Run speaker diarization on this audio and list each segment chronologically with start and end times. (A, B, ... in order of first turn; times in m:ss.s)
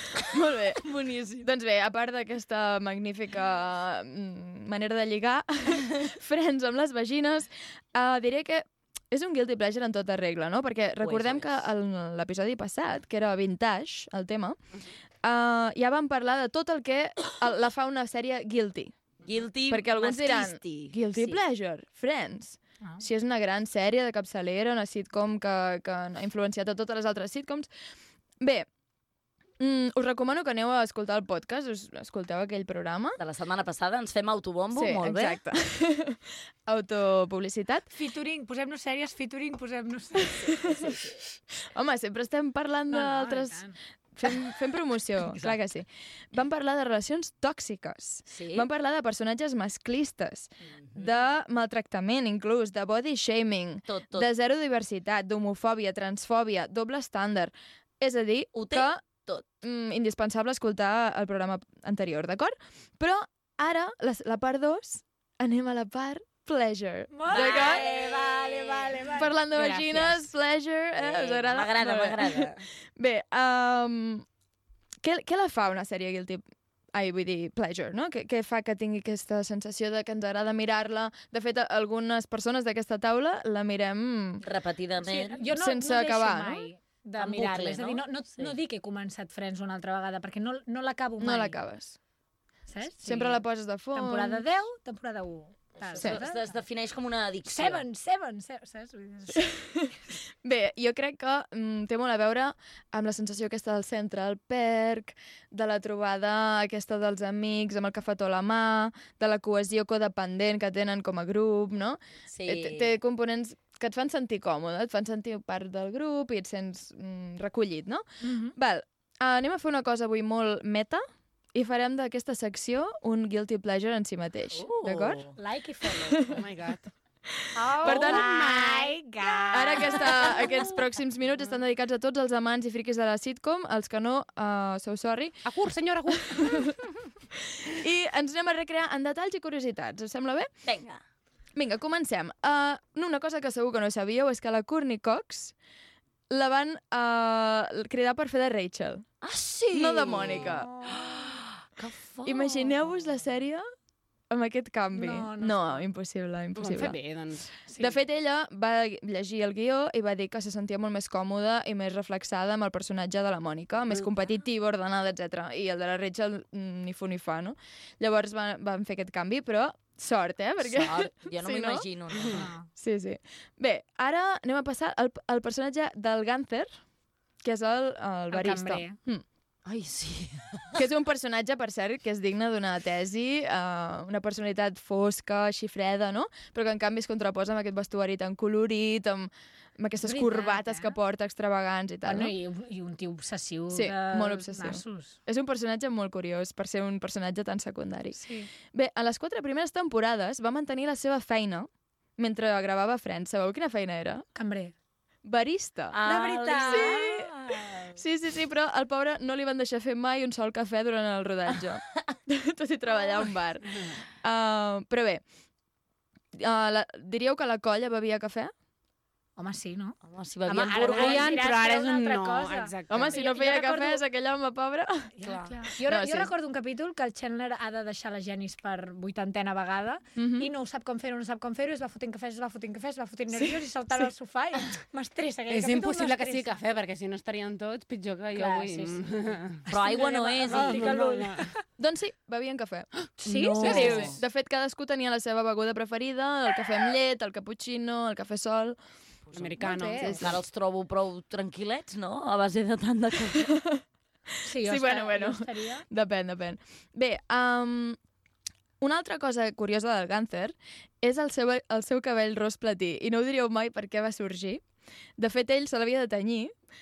0:00.2-0:14.6 A
0:00.8-0:01.5 B
0:11.0-0:11.7 B
0:15.2-0:18.9 A
0:19.2-0:21.4 B
0:19.7-0:27.7 A
0:28.4-0:28.6 A
0:29.6-0:33.2 A
0:33.2-0:35.4 B
0:34.7-0:37.9 A
0:37.9-0:40.6 C
0:40.5-0:41.0 A
0:40.7-0:41.1 B
0:41.6-0:59.0 A
0:42.9-0:43.8 C
0:45.2-0:45.6 B
0:48.3-0:48.7 B
0:53.9-0:54.3 B
0:58.5-0:59.4 B
0:59.6-1:07.9 A
1:07.1-1:09.3 C
1:07.3-1:09.0 B
1:09.1-1:14.2 A
1:09.6-1:10.0 D
1:11.0-1:12.6 B
1:15.0-1:24.4 A
1:24.4-1:25.4 B
1:25.0-1:31.6 C
1:25.5-1:26.7 A
1:27.2-1:28.6 B
1:31.2-1:32.0 A
1:32.7-1:36.6 C
1:33.0-1:34.4 A
1:35.9-1:37.8 B
1:37.4-1:39.5 C
1:39.3-2:05.2 A
1:52.3-1:52.9 B
1:58.2-1:58.5 C
2:04.5-2:05.3 B
2:05.4-2:06.2 C
2:06.1-2:06.4 A
2:06.2-2:06.9 D
2:07.3-2:08.3 A
2:07.5-2:10.5 C
2:07.8-2:09.4 D
2:09.5-2:15.4 A
2:15.4-2:16.7 D
2:16.2-2:16.7 A
2:17.4-2:20.5 A
2:20.6-2:21.0 B
2:21.6-2:25.5 A
2:26.3-2:29.1 A
2:29.2-2:32.9 B
2:29.7-2:30.7 A
2:30.6-2:31.0 C
2:32.2-2:33.6 A
2:34.3-2:37.0 A
2:34.9-2:35.8 C
2:36.6-2:37.5 D
2:37.7-2:38.0 C
2:37.8-2:51.9 A
2:50.6-2:52.4 B
2:52.3-2:52.7 C
2:52.7-2:56.7 A
2:57.4-2:59.2 A
2:58.3-2:59.0 C
2:59.6-3:00.8 B
3:00.7-3:12.3 A
3:10.0-3:11.0 C
3:12.0-3:15.2 C
3:13.7-3:24.2 A
3:18.1-3:18.5 C
3:24.3-3:24.7 C
3:25.2-3:26.0 A
3:25.9-3:27.0 B
3:26.0-3:27.9 C
3:26.5-3:27.3 A
3:27.9-3:35.2 A
3:36.3-3:38.5 A
3:39.4-3:44.0 C
3:40.0-3:41.4 B
3:40.6-3:43.2 D
3:42.9-3:45.1 A
3:45.2-3:56.6 C
3:45.7-3:46.3 A
3:50.2-3:50.5 A
3:55.5-3:59.6 D
3:58.3-4:01.6 C
3:59.7-4:01.0 B
4:00.4-4:01.5 D
4:01.8-4:02.9 A
4:03.2-4:04.1 C
4:03.2-4:04.2 B
4:03.5-4:08.8 A
4:03.6-4:04.1 D
4:09.3-4:09.6 B
4:09.3-4:10.2 D
4:09.6-4:10.2 C
4:09.8-4:10.4 A
4:10.2-4:13.6 B
4:13.3-4:13.8 A
4:14.4-4:15.8 C
4:14.5-4:18.0 A
4:18.8-4:24.6 A
4:25.2-4:26.5 A